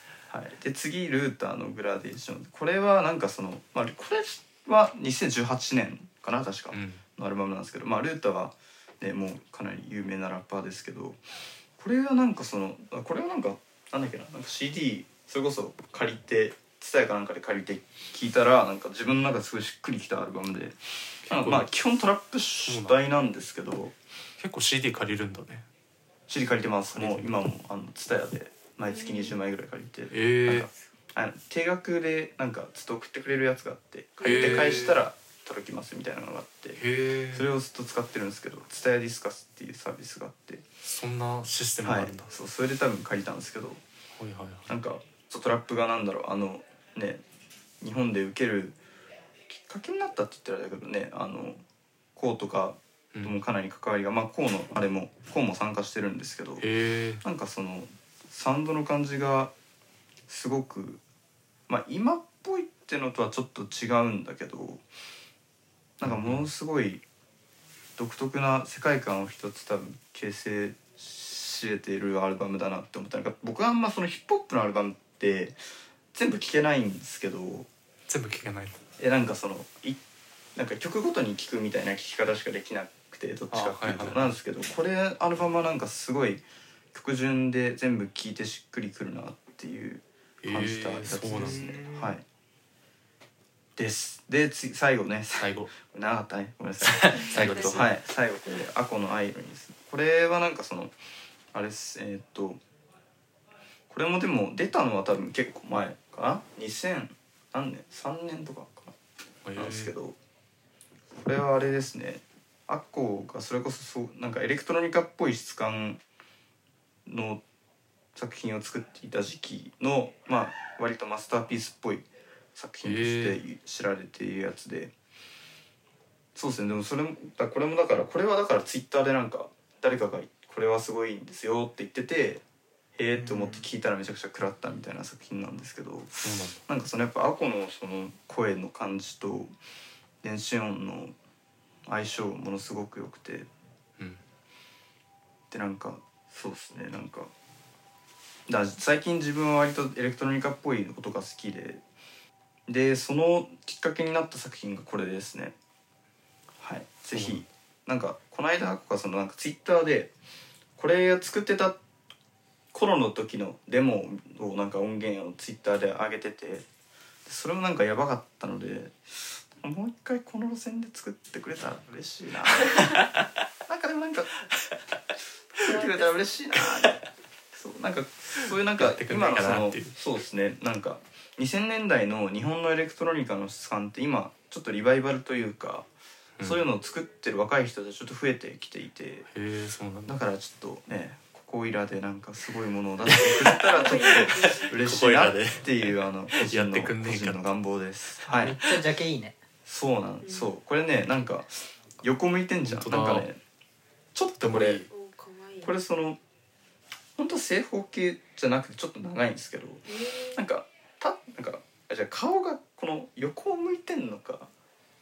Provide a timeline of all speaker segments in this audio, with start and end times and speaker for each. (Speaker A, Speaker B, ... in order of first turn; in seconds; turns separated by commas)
Speaker A: 0.3-11.2, Speaker B: 6.7-7.0, Speaker A: 11.8-23.9, Speaker B: 21.3-21.7, Speaker B: 22.7-23.0, Speaker B: 24.4-25.6, Speaker A: 26.3-36.8, Speaker B: 26.9-27.4, Speaker C: 28.8-29.4, Speaker B: 30.1-30.7, Speaker C: 34.2-34.9, Speaker B: 34.2-35.0, Speaker B: 36.8-37.5, Speaker A: 37.3-40.6, Speaker B: 40.8-42.3, Speaker A: 41.8-43.8, Speaker B: 44.2-44.7, Speaker A: 44.7-47.2, Speaker A: 47.8-48.8, Speaker A: 49.5-51.6, Speaker A: 52.1-56.6, Speaker B: 56.6-57.2, Speaker A: 57.2-59.5, Speaker A: 60.3-61.0, Speaker A: 61.7-64.8, Speaker A: 66.0-67.0, Speaker B: 66.0-66.5, Speaker A: 68.0-75.6, Speaker A: 76.1-77.7, Speaker B: 78.1-78.8, Speaker A: 79.0-80.0, Speaker A: 80.5-92.2, Speaker B: 83.5-84.3, Speaker B: 90.4-91.8, Speaker D: 91.3-92.2, Speaker A: 93.8-100.9, Speaker B: 95.4-95.7, Speaker B: 96.8-97.9, Speaker C: 97.2-97.9, Speaker A: 101.5-102.6, Speaker A: 103.9-108.9, Speaker B: 109.4-109.9, Speaker A: 109.6-110.2, Speaker A: 111.2-116.0, Speaker A: 117.1-117.4, Speaker A: 118.2-124.9, Speaker B: 122.8-123.4, Speaker A: 126.3-132.4, Speaker A: 133.0-139.5, Speaker D: 133.2-133.7, Speaker B: 136.2-136.6, Speaker A: 140.2-141.1, Speaker A: 141.9-143.5, Speaker A: 145.5-147.3, Speaker A: 148.5-151.8, Speaker A: 152.7-155.6, Speaker A: 156.6-160.1, Speaker B: 157.2-157.4, Speaker A: 160.8-161.8, Speaker A: 162.7-166.7, Speaker A: 167.3-169.0, Speaker A: 169.5-173.1, Speaker A: 173.7-174.5, Speaker A: 175.6-185.9, Speaker C: 175.6-176.3, Speaker B: 178.8-180.0, Speaker A: 186.4-189.3, Speaker B: 189.3-190.2, Speaker A: 190.1-198.8, Speaker B: 193.0-197.4, Speaker C: 193.5-194.7, Speaker D: 198.2-199.4, Speaker A: 199.7-203.4, Speaker C: 200.2-200.5, Speaker B: 202.6-203.3, Speaker A: 204.2-204.8, Speaker B: 204.4-204.9, Speaker C: 204.9-205.7, Speaker A: 205.6-206.2, Speaker A: 207.2-214.5, Speaker C: 209.9-210.5